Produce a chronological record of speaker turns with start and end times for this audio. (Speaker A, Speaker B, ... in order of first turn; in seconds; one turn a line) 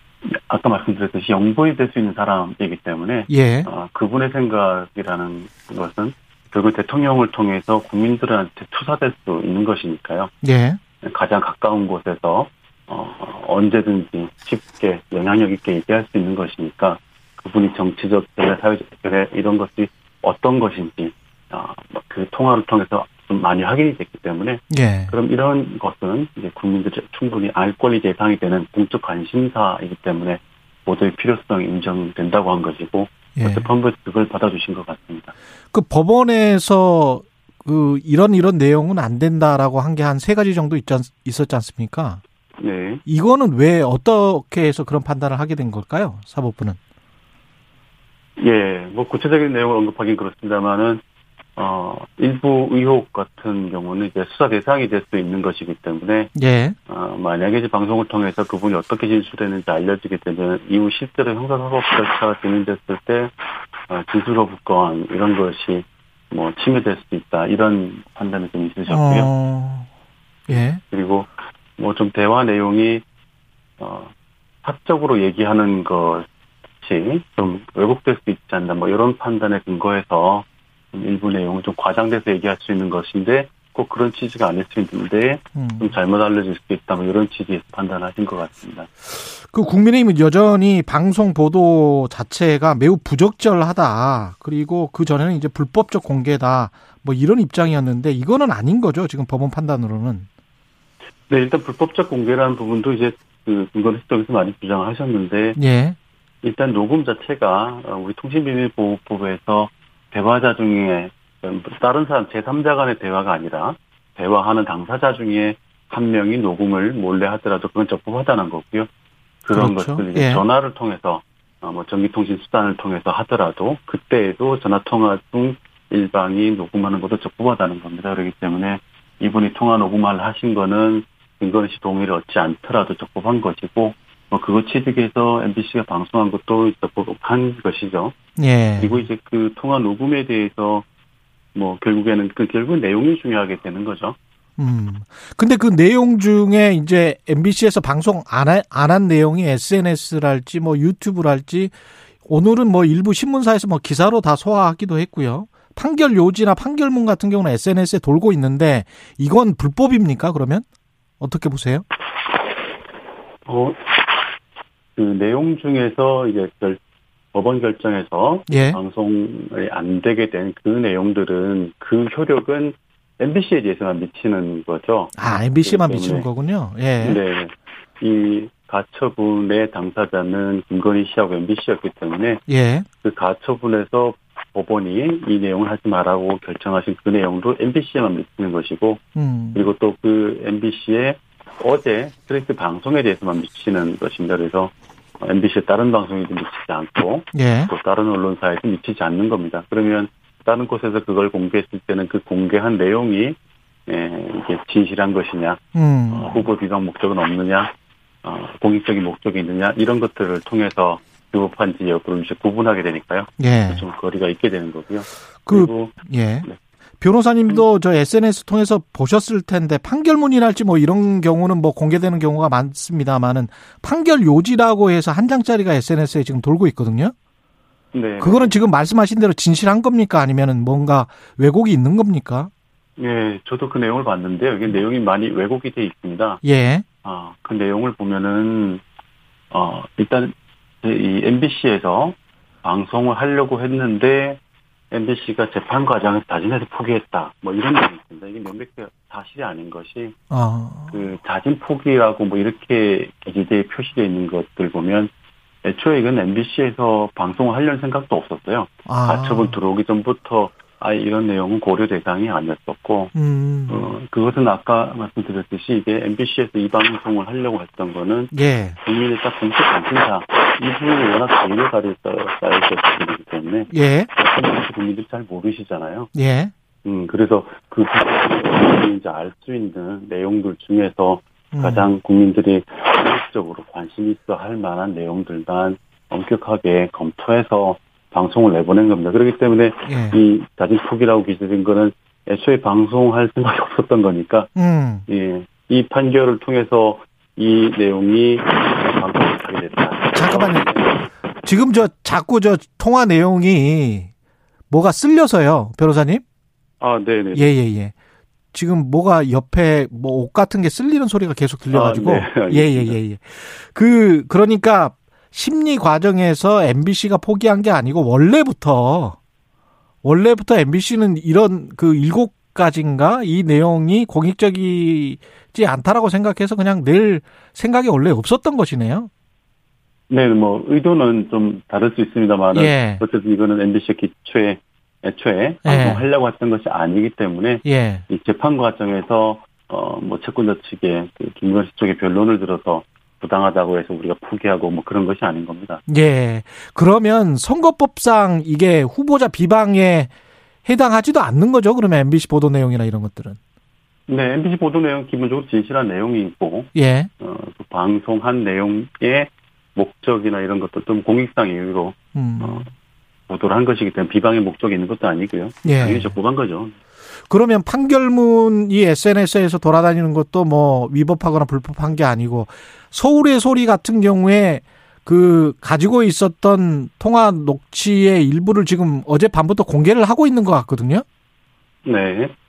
Speaker A: 0.2-10.3
Speaker B: 3.3-3.7
Speaker B: 10.4-10.8
Speaker A: 11.0-35.3
Speaker B: 24.7-25.1
Speaker B: 33.4-33.7
Speaker B: 35.7-42.2
Speaker A: 42.6-43.0
Speaker B: 43.0-46.8
Speaker A: 48.4-51.0
Speaker A: 51.5-56.3
Speaker B: 56.3-56.8
Speaker A: 56.9-63.3
Speaker A: 63.9-69.3
Speaker B: 68.9-69.9
Speaker B: 70.5-70.8
Speaker A: 70.8-73.0
Speaker A: 73.8-74.1
Speaker A: 74.6-76.3
Speaker A: 76.8-88.9
Speaker B: 85.5-85.9
Speaker B: 89.1-100.3
Speaker A: 101.3-105.6
Speaker B: 105.5-106.0
Speaker A: 106.4-118.9
Speaker A: 119.4-138.1
Speaker B: 119.5-120.4
Speaker B: 138.4-139.1
Speaker A: 138.8-140.8
Speaker A: 141.5-144.2
Speaker B: 144.6-151.7
Speaker B: 152.2-160.7
Speaker B: 161.2-161.8
Speaker A: 163.4-163.8
Speaker A: 164.9-166.8
Speaker A: 167.3-176.3
Speaker B: 168.5-168.8
Speaker B: 175.2-177.2
Speaker A: 177.0-182.4
Speaker B: 182.5-182.8
Speaker A: 183.0-189.0
Speaker B: 189.2-189.7
Speaker A: 189.5-207.7
Speaker B: 197.3-197.7
Speaker B: 205.7-206.4
Speaker A: 208.2-216.6
Speaker B: 213.4-213.8
Speaker B: 215.4-216.5
Speaker B: 217.0-227.1
Speaker A: 227.9-228.6
Speaker B: 228.2-232.5
Speaker A: 233.0-236.4
Speaker B: 236.4-236.8
Speaker A: 237.0-238.8
Speaker A: 239.5-244.4
Speaker A: 244.9-250.2
Speaker B: 250.3-251.0
Speaker A: 250.9-255.1
Speaker A: 255.6-263.1
Speaker B: 258.9-259.6
Speaker B: 263.1-263.9
Speaker A: 263.7-276.1
Speaker B: 268.3-268.8
Speaker B: 273.7-274.1
Speaker B: 276.1-276.5
Speaker A: 276.8-294.5
Speaker B: 281.5-281.9
Speaker B: 289.9-290.2
Speaker B: 294.6-295.0
Speaker A: 295.1-301.1
Speaker B: 300.1-300.7
Speaker B: 301.4-304.1
Speaker B: 304.7-306.2
Speaker A: 306.8-307.5
Speaker B: 307.3-307.9
Speaker B: 308.5-319.2
Speaker A: 311.7-313.0
Speaker B: 320.0-329.1
Speaker A: 330.1-345.8
Speaker B: 332.5-333.0
Speaker B: 335.6-336.1
Speaker B: 337.6-338.0
Speaker B: 345.9-350.1
Speaker B: 350.6-353.4
Speaker A: 354.1-362.7
Speaker B: 356.7-357.1
Speaker B: 362.1-362.7
Speaker A: 363.3-366.7
Speaker B: 365.6-366.1
Speaker B: 367.3-381.0
Speaker A: 381.9-382.3